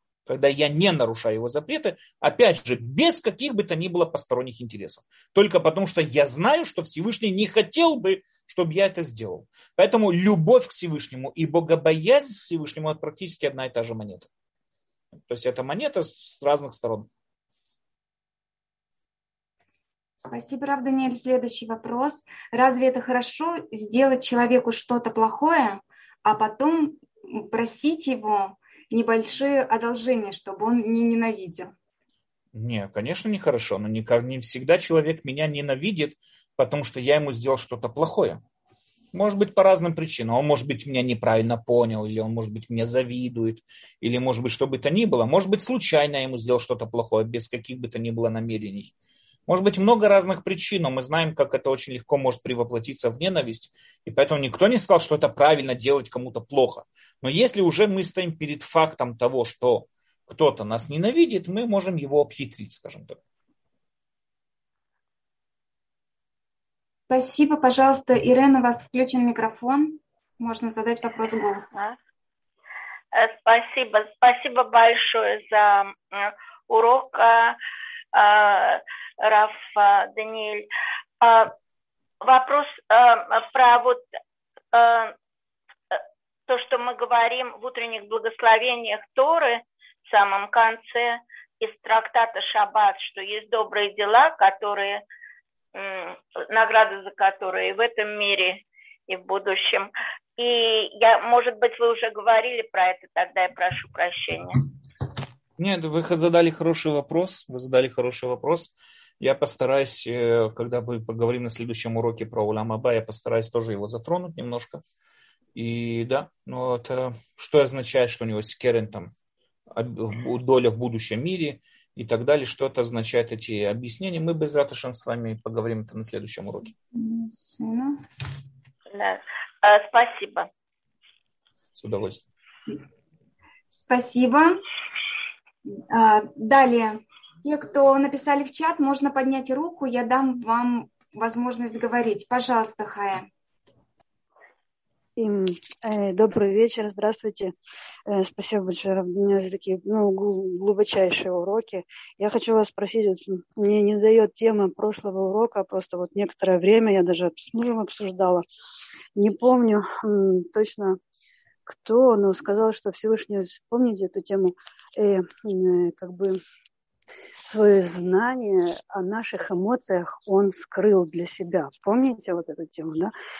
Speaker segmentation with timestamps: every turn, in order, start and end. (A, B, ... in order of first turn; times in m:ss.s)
0:00.3-0:14.3 A
0:15.3-0:17.1 A
0:20.2-0:31.7 B
0:32.5-0:38.4 A
0:39.1-0:48.9 A
0:49.5-1:03.2 A
1:07.1-1:11.8 B
1:13.1-1:17.6 C
1:18.1-1:20.7 C
1:21.2-1:21.5 C
1:22.2-1:24.0 C
1:24.7-1:25.1 C
1:25.9-1:35.0 C
1:35.7-1:44.6 C
1:45.6-1:54.8 A
1:55.5-1:59.1 A
1:59.7-2:06.7 A
2:06.9-2:08.0 B
2:08.9-2:10.5 C
2:11.8-2:12.2 A
2:13.8-2:14.6 B
2:15.7-2:23.3 B
2:25.2-2:27.5 D
2:28.1-2:38.4 D
2:39.2-2:41.0 D
2:41.7-2:46.4 D
2:47.4-2:53.1 D